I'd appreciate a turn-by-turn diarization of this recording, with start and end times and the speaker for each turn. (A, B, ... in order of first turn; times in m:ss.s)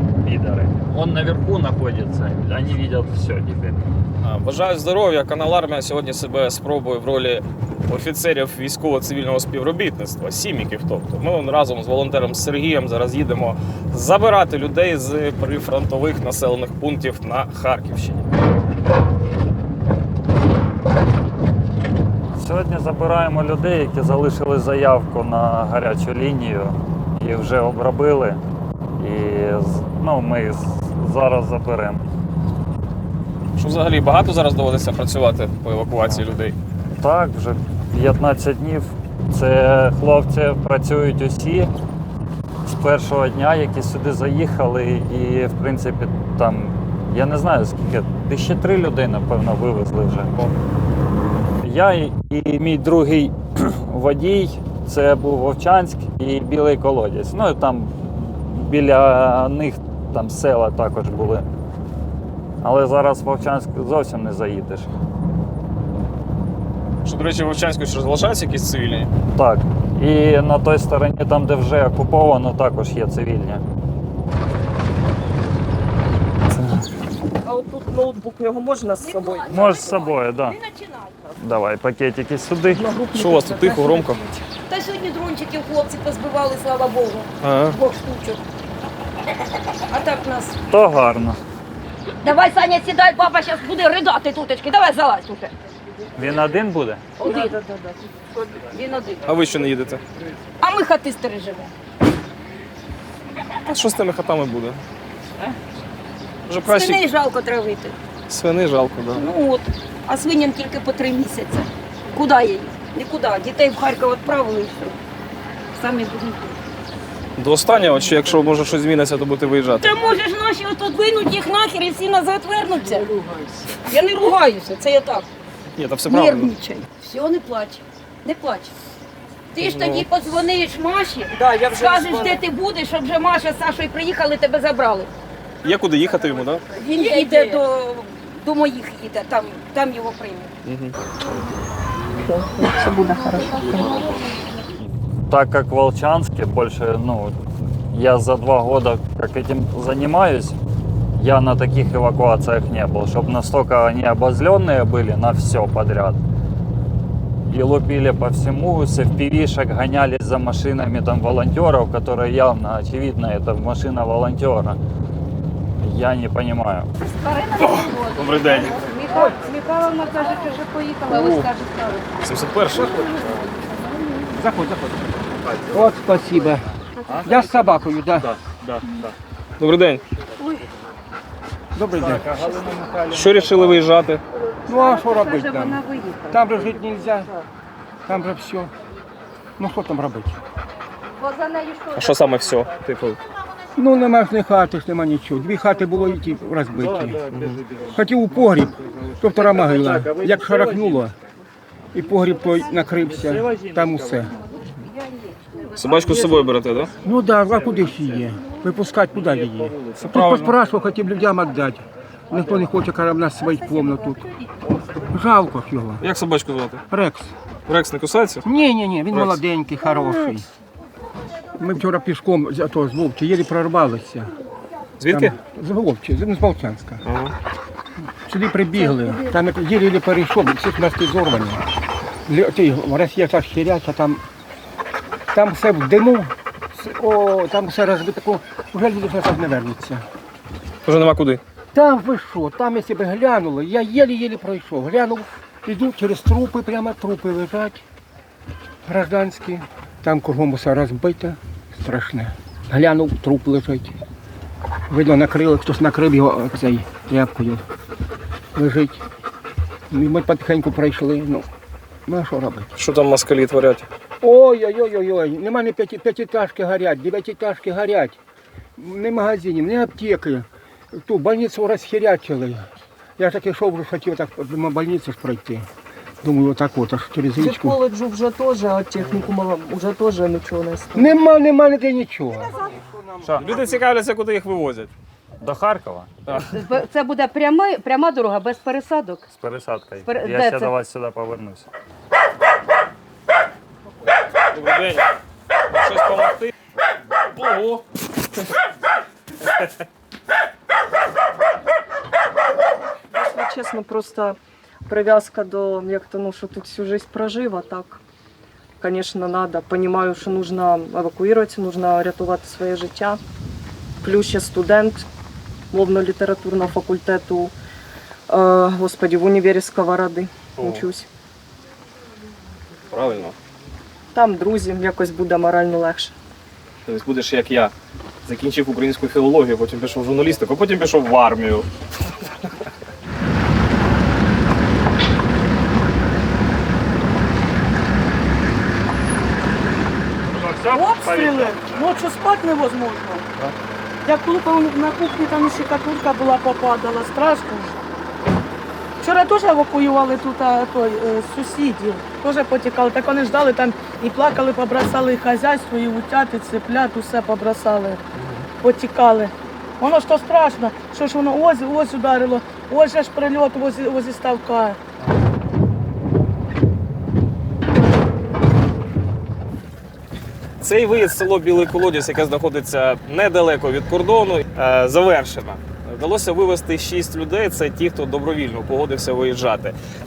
0:00.2-0:03.8 A
0:04.2-0:18.2 B
0:22.4-0:28.4 A
0:29.0-0:32.0 A
0:33.6-0:36.6 B
0:37.0-0:41.7 A
0:42.6-0:50.4 A
0:51.6-1:01.4 A
1:02.6-1:04.9 A
1:07.0-1:09.1 B
1:09.3-1:13.6 A
1:17.4-1:19.8 C
1:19.0-1:21.3 D
1:19.5-1:20.6 A
1:21.4-1:22.8 A
1:22.7-1:24.4 C
1:23.1-1:24.3 B
1:24.6-1:28.4 D
1:27.4-1:27.8 B
1:29.9-1:30.6 D
1:30.7-1:31.4 A
1:32.2-1:35.5 D
1:36.2-1:37.0 A
1:37.2-1:39.4 D
1:39.3-1:40.0 B
1:40.6-1:41.7 D
1:43.6-1:44.8 B
1:46.5-1:47.0 B
1:46.6-1:48.0 D
1:48.3-1:49.2 B
1:49.2-1:55.0 D
1:55.8-1:56.6 D
1:57.4-1:59.9 B
1:59.8-2:03.1 D
2:03.8-2:05.3 D
2:05.8-2:06.5 B
2:06.1-2:08.7 D
2:09.5-2:15.1 D
2:09.6-2:10.1 B
2:11.4-2:12.4 C
2:15.6-2:16.7 B
2:16.8-2:20.5 D
2:20.6-2:21.0 B
2:22.2-2:24.1 C
2:25.3-2:30.6 A
2:31.2-2:36.2 A
2:37.5-2:44.8 A
2:45.8-2:46.9 A
2:47.1-2:47.7 E
2:47.6-2:48.9 B
2:48.9-2:52.0 E
2:51.1-2:51.5 F
2:52.2-2:53.2 B
2:53.7-2:54.1 E
2:54.3-2:55.2 F
2:55.7-2:56.7 F
2:57.2-2:58.3 F
2:58.4-2:58.8 A
2:59.6-3:00.0 B
3:01.7-3:02.4 F
3:02.1-3:03.6 A
3:03.1-3:04.2 B
3:04.7-3:07.3 F
3:04.7-3:06.2 E
3:08.1-3:08.7 F
3:09.6-3:10.4 F
3:11.9-3:13.2 B
3:13.8-3:17.2 F
3:17.3-3:17.6 B
3:17.9-3:21.2 F
3:21.9-3:24.4 F
3:25.8-3:26.9 B
3:27.0-3:34.3 F
3:30.0-3:30.6 B
3:35.1-3:36.1 F
3:36.0-3:36.8 B
3:36.9-3:37.3 F
3:37.7-3:38.4 B
3:38.4-3:40.5 F
3:39.1-3:39.4 B
3:41.6-3:44.3 F
3:45.0-3:45.4 B
3:45.1-3:47.0 F
3:47.0-3:47.3 B
3:48.2-3:51.6 F
3:52.3-3:54.2 F
3:55.3-4:00.0 F
4:00.9-4:01.4 B
4:01.7-4:07.8 F
4:08.8-4:13.9 F
4:14.9-4:17.6 F
4:18.6-4:19.0 F
4:19.9-4:21.5 F
4:22.1-4:22.7 F
4:22.8-4:23.9 B
4:24.2-4:28.2 F
4:28.8-4:35.7 F
4:36.2-4:37.8 F
4:37.4-4:41.1 C
4:41.0-4:43.6 F
4:43.2-4:44.9 B
4:45.4-4:46.1 A
4:46.3-4:46.6 B
4:46.5-4:48.8 E
4:49.3-4:51.7 A
4:50.1-4:50.7 E
4:54.5-4:55.1 B
4:55.7-4:56.5 B
4:57.3-4:57.8 B
5:03.1-5:08.0 C
5:08.8-5:13.2 C
5:14.0-5:15.1 C
5:15.7-5:17.5 C
5:18.3-5:21.1 C
5:20.6-5:20.9 B
5:22.9-5:23.4 B
5:24.1-5:26.1 C
5:26.9-5:27.7 B
5:28.2-5:31.7 B
5:40.3-5:41.9 A
5:40.7-5:43.2 G
5:44.0-5:47.8 G
5:49.0-5:58.0 G
5:58.6-6:04.8 G
6:10.6-6:19.8 B